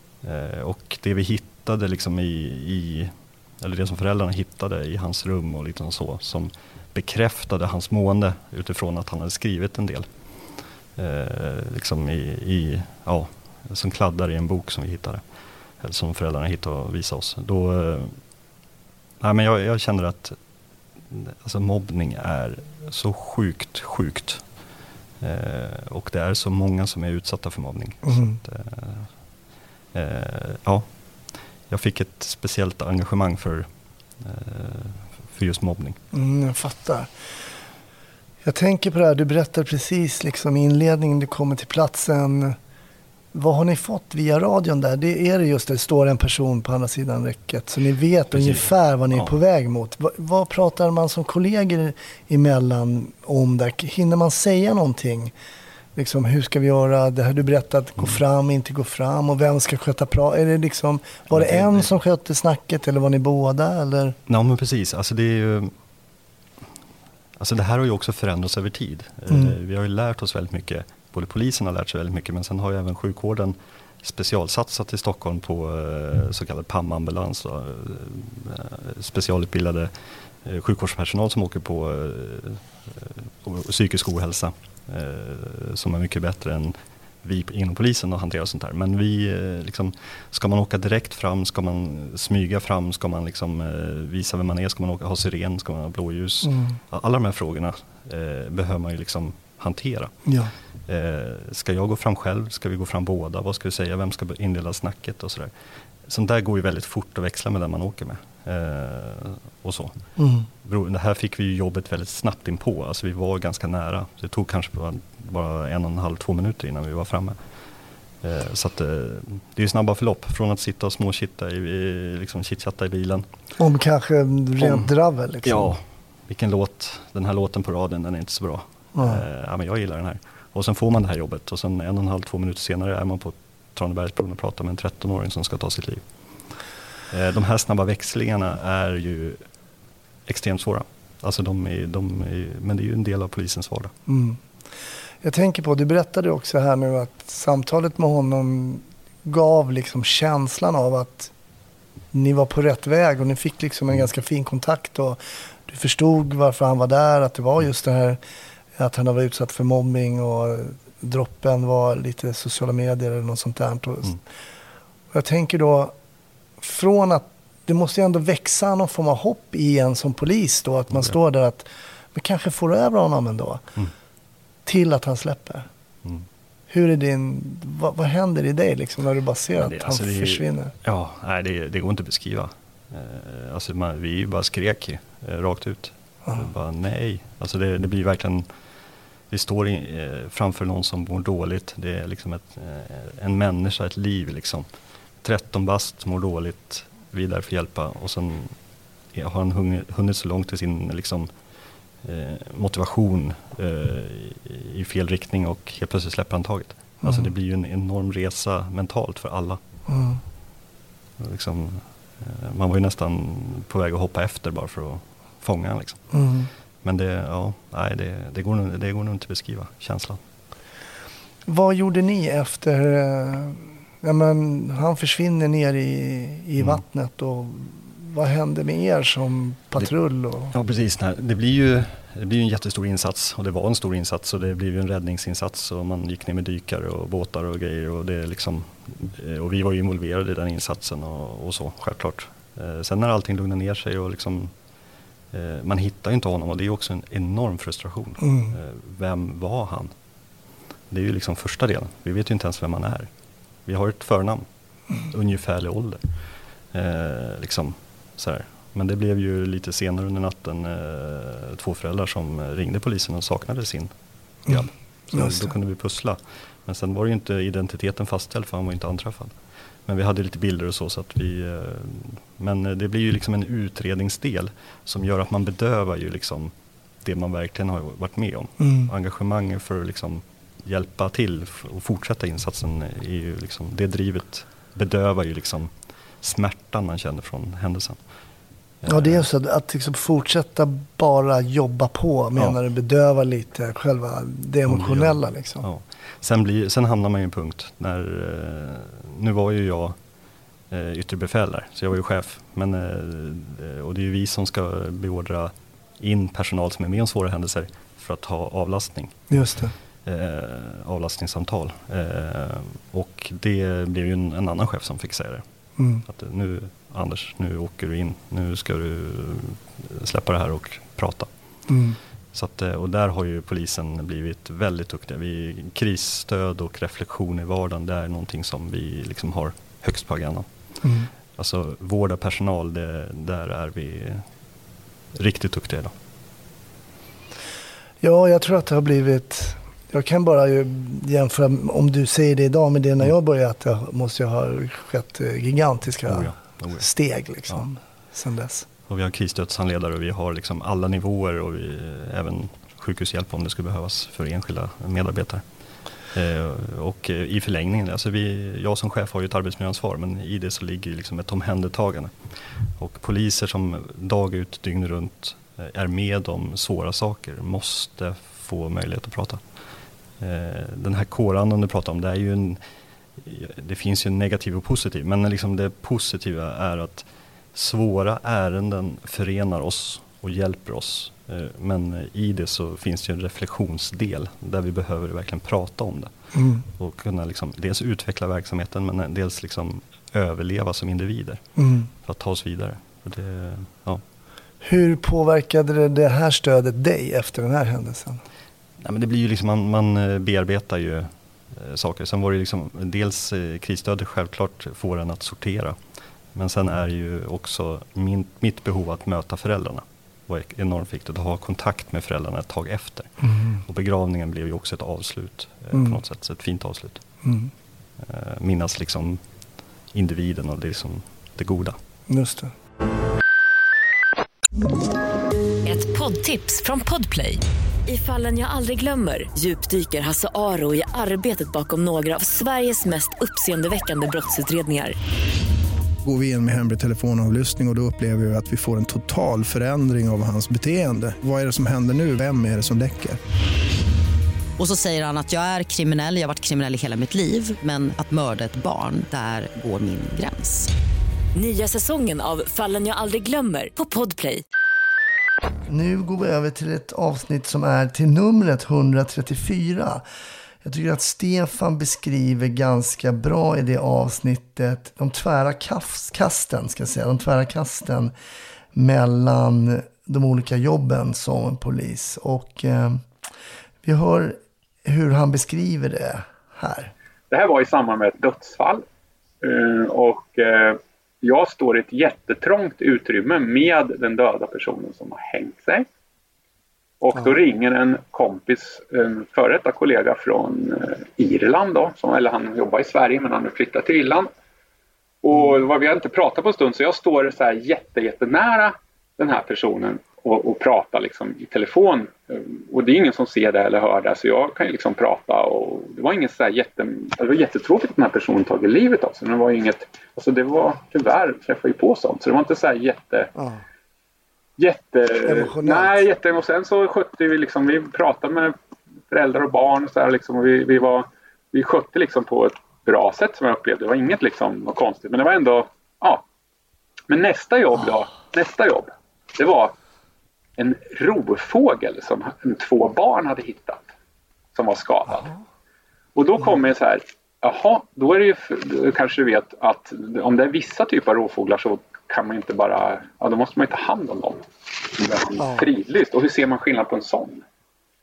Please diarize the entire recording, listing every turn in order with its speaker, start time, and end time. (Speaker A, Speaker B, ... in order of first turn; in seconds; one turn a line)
Speaker A: 0.2-15.2
Speaker A: 15.8-18.3
Speaker A: 19.2-20.4
Speaker A: 21.1-24.6
Speaker A: 25.2-36.0
Speaker B: 28.0-28.4
Speaker B: 36.1-37.1
Speaker B: 38.4-42.5
Speaker B: 43.3-55.3
Speaker A: 48.3-49.3
Speaker B: 56.0-64.2
Speaker A: 61.3-61.9
Speaker A: 64.3-65.7
Speaker A: 67.4-79.9
Speaker B: 69.3-69.5
Speaker A: 80.4-100.3
Speaker B: 96.4-96.8
Speaker B: 100.2-100.5
Speaker A: 100.8-105.5
Speaker A: 106.0-117.4
Speaker B: 110.2-110.5
Speaker A: 118.2-123.3
Speaker B: 123.6-125.7
Speaker A: 124.6-124.9
Speaker A: 125.4-139.5
Speaker B: 128.9-129.2
Speaker A: 140.2-143.9
Speaker B: 144.1-144.4
Speaker B: 145.2-151.3
Speaker B: 152.1-158.2
Speaker B: 158.8-164.1
Speaker B: 165.1-165.9
Speaker B: 166.6-173.6
Speaker B: 174.7-175.7
Speaker B: 176.7-180.7
Speaker A: 179.6-188.4
Speaker A: 189.3-194.7
Speaker A: 195.2-198.6
Speaker A: 199.1-201.3
Speaker A: 202.0-209.6
Speaker B: 209.9-210.2
Speaker A: 211.2-216.2
Speaker B: 216.1-216.5
Speaker A: 216.8-220.2
Speaker B: 221.4-230.5
Speaker A: 230.5-244.6
Speaker A: 245.3-249.9
Speaker B: 248.2-248.5
Speaker A: 250.9-253.1
Speaker A: 253.6-288.0
Speaker B: 264.5-265.5
Speaker B: 278.6-278.9
Speaker A: 288.8-289.2
Speaker B: 288.9-295.6
Speaker A: 294.7-300.0
Speaker A: 300.7-309.4
Speaker B: 309.3-309.7
Speaker A: 310.0-315.4
Speaker B: 315.8-316.0
Speaker A: 316.0-321.6
Speaker B: 321.7-322.0
Speaker A: 322.3-334.3
Speaker B: 330.8-331.1
Speaker A: 335.1-335.9
Speaker B: 338.0-348.6
Speaker A: 346.1-347.7
Speaker A: 348.9-355.4
Speaker A: 356.0-369.4
Speaker A: 370.2-372.6
Speaker A: 373.2-394.0
Speaker B: 386.3-386.6
Speaker B: 391.6-391.9
Speaker B: 394.6-398.2
Speaker A: 398.8-405.8
Speaker A: 406.3-417.2
Speaker B: 413.2-413.6
Speaker B: 415.7-416.0
Speaker B: 417.2-417.5
Speaker A: 418.0-419.2
Speaker A: 419.9-421.8
Speaker B: 422.1-422.5
Speaker C: 425.6-434.9
Speaker D: 436.0-443.2
Speaker E: 444.6-450.7
Speaker C: 451.3-454.4
Speaker B: 455.7-460.0
Speaker B: 460.6-468.1
Speaker B: 468.7-473.0
Speaker B: 473.8-476.9
Speaker F: 477.3-478.8
Speaker F: 479.4-485.9
Speaker F: 487.0-494.3
Speaker F: 495.2-513.3
Speaker B: 513.4-513.6
Speaker F: 514.6-518.5
Speaker B: 515.2-516.0
Speaker F: 519.1-526.2
Speaker F: 527.1-529.7
Speaker F: 530.6-533.8
Speaker F: 534.5-535.3
Speaker F: 536.1-547.4
Speaker B: 545.4-545.7